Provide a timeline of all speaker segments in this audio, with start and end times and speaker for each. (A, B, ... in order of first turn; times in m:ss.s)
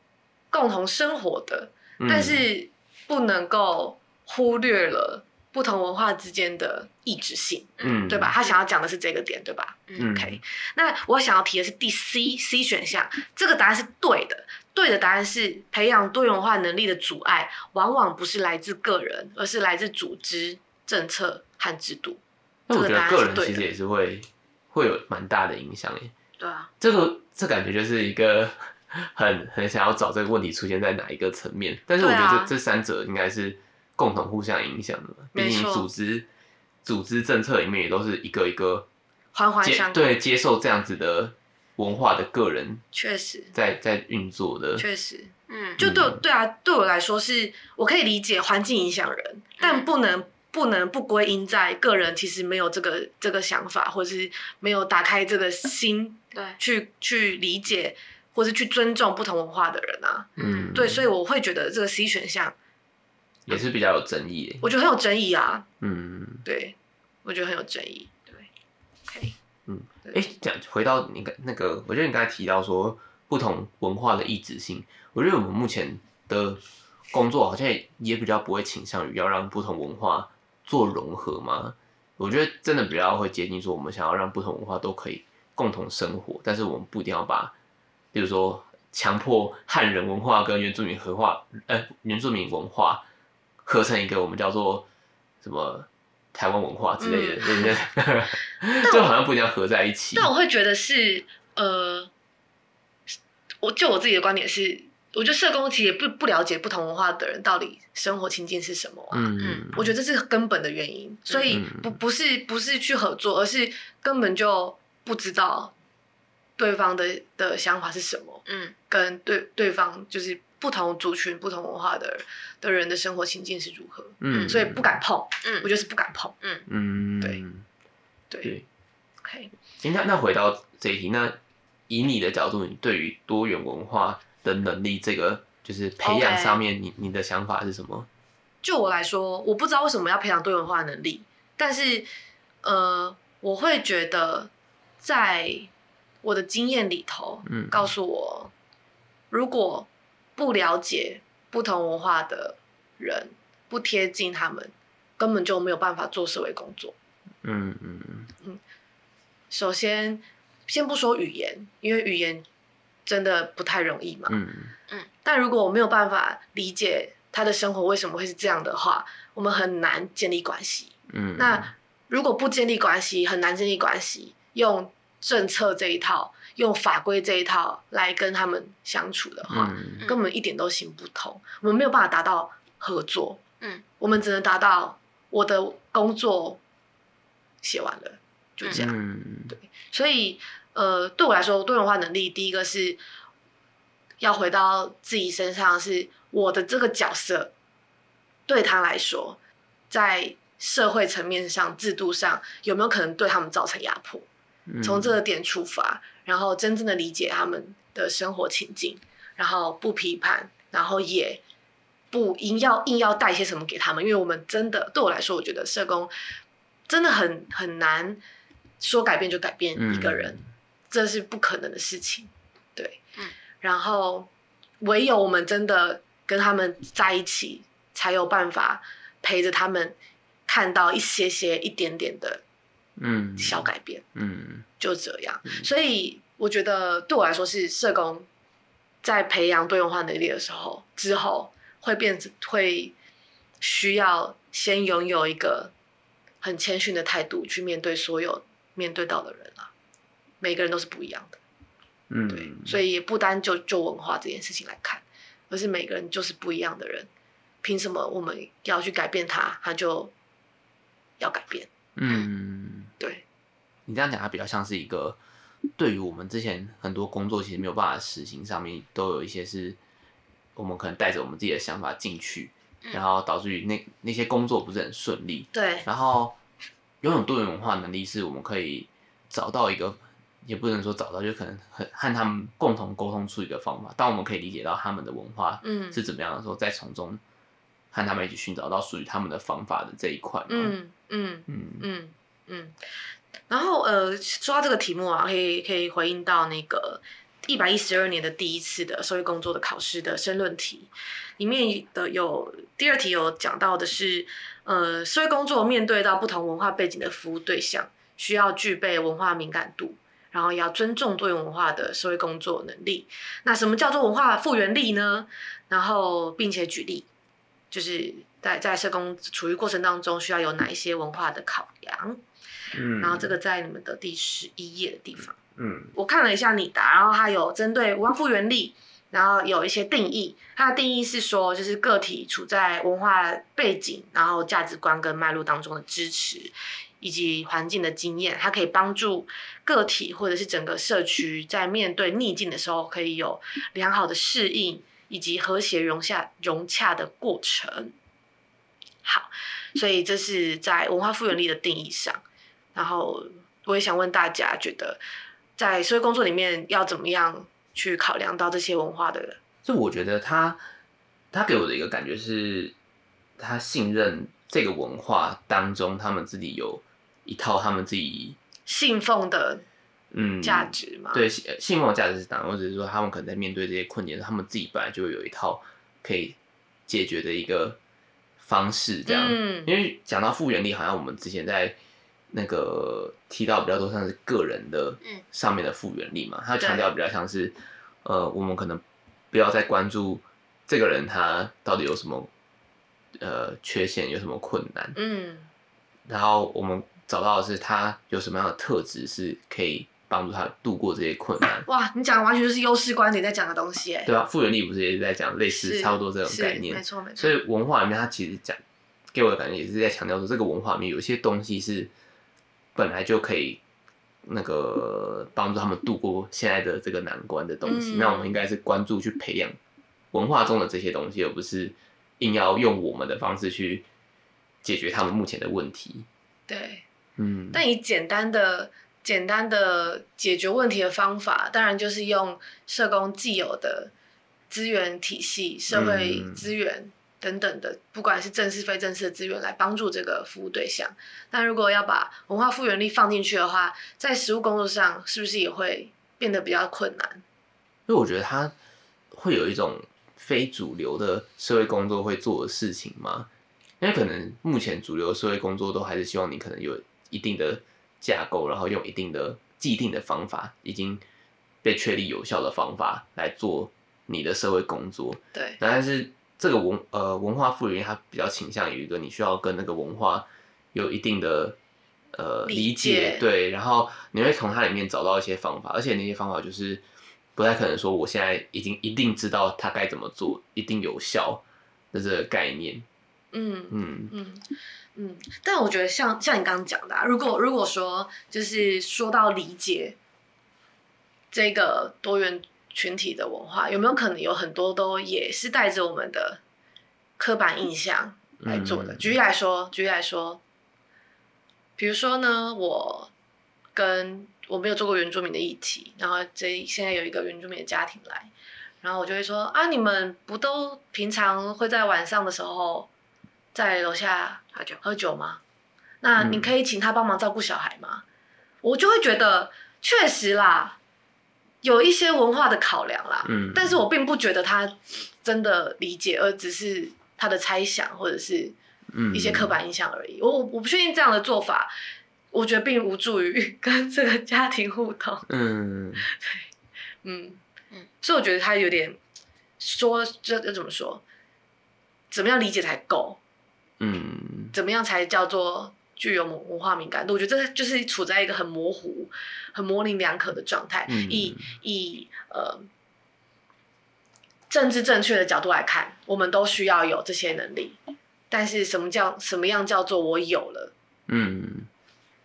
0:00.5-0:22.2 A
0:02.0-0:02.5 B
0:07.8-0:08.3 B
0:10.0-0:10.4 B
0:22.7-0:26.1 B
0:22.7-0:23.6 A
0:26.4-0:26.7 C
0:26.8-0:36.3 B
0:32.0-0:32.5 A
0:35.3-0:35.9 A
0:36.8-0:38.9 B
0:39.3-0:40.0 A
0:39.6-0:42.8 B
0:42.9-0:43.5 A
0:43.5-0:44.8 B
0:44.8-1:02.6 A
0:45.5-0:45.8 C
0:45.8-0:46.2 B
0:49.6-0:49.9 C
1:00.4-1:00.8 C
1:00.4-1:01.1 B
1:03.5-1:04.7 B
1:04.6-1:05.7 A
1:05.8-1:06.5 B
1:06.4-1:08.5 A
1:09.1-1:09.4 A
1:09.7-1:16.6 B
1:17.1-1:27.5 B
1:28.1-1:33.0 B
1:33.6-1:34.9 B
1:35.4-1:40.3 B
1:37.0-1:37.8 A
1:38.8-1:39.1 A
1:40.1-1:42.1 A
1:43.6-1:55.7 A
1:49.1-1:49.9 B
1:49.4-1:49.6 C
1:51.5-1:52.0 B
1:56.6-2:06.4 A
1:58.5-1:58.8 C
2:04.2-2:05.0 B
2:06.7-2:07.6 B
2:09.2-2:09.5 A
2:09.8-2:11.4 B
2:11.9-2:18.1 B
2:16.0-2:16.6 A
2:18.6-2:22.1 A
2:22.6-2:24.5 A
2:25.0-2:25.7 A
2:26.2-2:28.5 A
2:27.5-2:27.9 B
2:29.3-2:37.0 A
2:37.4-2:38.3 B
2:39.5-2:42.5 A
2:43.1-2:44.4 A
2:44.3-2:44.7 B
2:45.2-3:03.4 A
2:51.1-2:51.7 B
2:59.5-3:00.0 B
3:04.0-3:06.6 A
3:07.6-3:09.0 A
3:08.7-3:09.6 B
3:09.5-3:13.0 A
3:14.2-3:17.5 A
3:18.5-3:19.4 A
3:19.9-3:24.3 A
3:24.7-3:25.2 B
3:24.8-3:31.4 A
3:32.1-3:36.1 A
3:36.9-3:38.2 A
3:38.8-3:40.4 A
3:39.8-3:40.5 B
3:40.9-3:43.0 A
3:43.6-3:44.3 A
3:44.8-3:50.0 A
3:50.5-3:52.4 A
3:53.0-3:54.7 B
3:53.4-3:54.0 A
3:54.8-3:58.3 A
3:59.0-4:02.9 A
4:03.6-4:05.7 A
4:06.4-4:09.7 A
4:10.4-4:11.4 A
4:12.1-4:12.8 B
4:12.3-4:17.1 A
4:17.6-4:20.1 A
4:21.2-4:21.7 A
4:22.0-4:22.9 B
4:23.0-4:23.2 A
4:23.9-4:25.2 B
4:25.8-4:29.8 B
4:30.6-4:36.4 B
4:35.5-4:35.9 A
4:37.0-4:47.2 B
4:45.6-4:46.0 A
4:47.9-4:50.8 B
4:50.5-4:52.8 A
4:51.5-4:51.8 B
4:53.5-5:17.1 A
5:17.7-5:22.2 A
5:22.7-5:23.4 B
5:23.0-5:25.4 A
5:25.6-5:25.9 B
5:25.9-5:48.0 A
5:49.0-5:52.2 A
5:52.8-5:55.0 A
5:55.6-5:59.4 A
5:59.6-6:00.6 B
6:01.3-6:02.7 B
6:03.4-6:08.4 B
6:08.7-6:09.6 A
6:10.1-6:17.8 B
6:10.4-6:11.2 A
6:18.4-6:21.8 B
6:19.1-6:19.7 A
6:22.3-6:32.3 B
6:26.6-6:26.9 A
6:33.2-6:35.0 B
6:35.0-6:35.5 A
6:36.1-6:41.7 B
6:41.7-6:44.1 A
6:44.1-6:48.6 B
6:45.5-6:47.4 A
6:49.1-6:51.9 B
6:52.8-6:53.6 B
6:54.2-6:59.6 B
6:57.6-6:58.4 A
7:00.1-7:03.8 B
7:04.6-7:06.1 B
7:06.5-7:06.8 A
7:07.2-7:07.6 B
7:07.5-7:13.9 A
7:14.5-7:27.2 A
7:15.7-7:16.5 B
7:27.9-7:28.5 B
7:29.1-7:33.3 B
7:33.8-7:41.0 B
7:41.6-7:51.6 B
7:52.1-7:56.8 B
7:52.5-7:53.2 A
7:57.4-8:02.9 B
8:03.3-8:04.4 A
8:03.7-8:04.1 B
8:05.0-8:10.0 A
8:11.3-8:16.4 A
8:17.2-8:20.4 A
8:18.4-8:19.1 B
8:21.8-8:23.1 A
8:23.8-8:28.3 A
8:28.8-8:32.9 A
8:33.5-8:35.4 A
8:36.0-8:38.0 A
8:36.2-8:36.5 B
8:38.6-8:40.8 A
8:41.6-8:48.6 A
8:43.2-8:43.8 B
8:48.9-8:49.6 B
8:49.1-8:51.7 A
8:52.3-8:55.3 A
8:55.3-8:56.0 B
8:56.1-8:56.4 A
8:57.0-8:57.4 A
8:58.0-8:59.0 A
8:59.6-9:01.0 A
9:02.1-9:03.2 A
9:03.8-9:04.6 B
9:04.5-9:12.7 A
9:10.9-9:11.4 B
9:14.5-9:17.8 A
9:18.3-9:20.7 A
9:21.1-9:21.7 B